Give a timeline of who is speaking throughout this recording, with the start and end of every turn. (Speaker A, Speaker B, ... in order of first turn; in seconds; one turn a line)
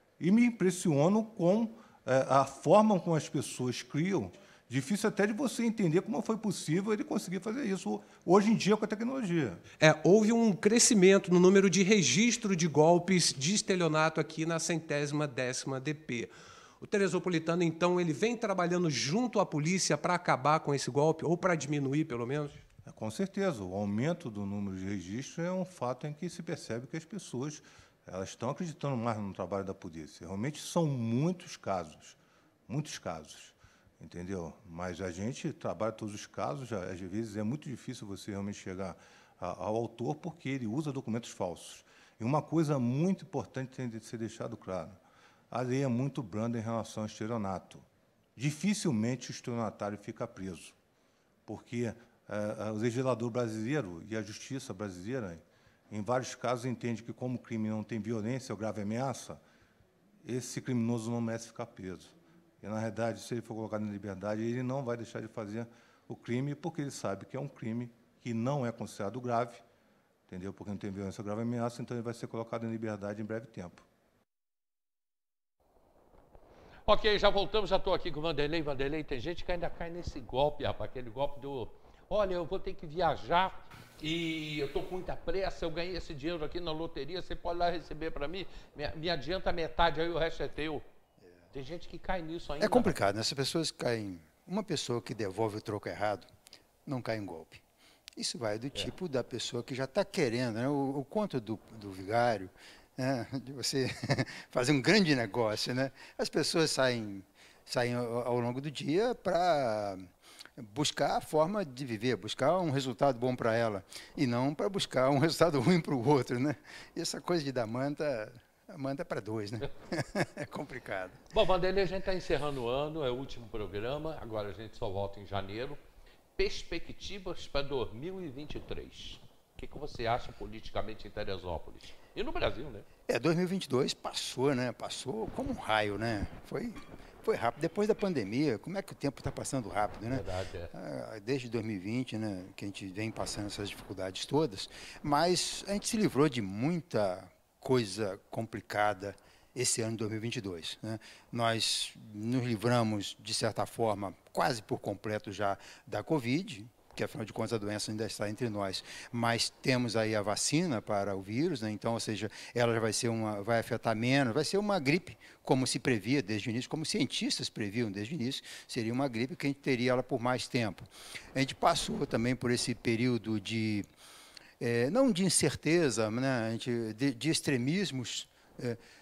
Speaker A: 0.2-9.6
Speaker B: 9.8-16.3
Speaker B: 16.8-22.6
Speaker A: 22.8-50.8
Speaker A: 51.5-59.4
Speaker A: 60.2-69.6
Speaker A: 70.3-73.8
Speaker C: 76.8-90.8
Speaker C: 91.5-93.0
Speaker D: 92.6-96.3
Speaker D: 96.8-97.6
Speaker D: 98.2-121.2
Speaker C: 121.3-125.8
Speaker C: 126.3-132.9
Speaker D: 133.1-173.8
Speaker C: 140.1-140.7
Speaker D: 174.6-178.8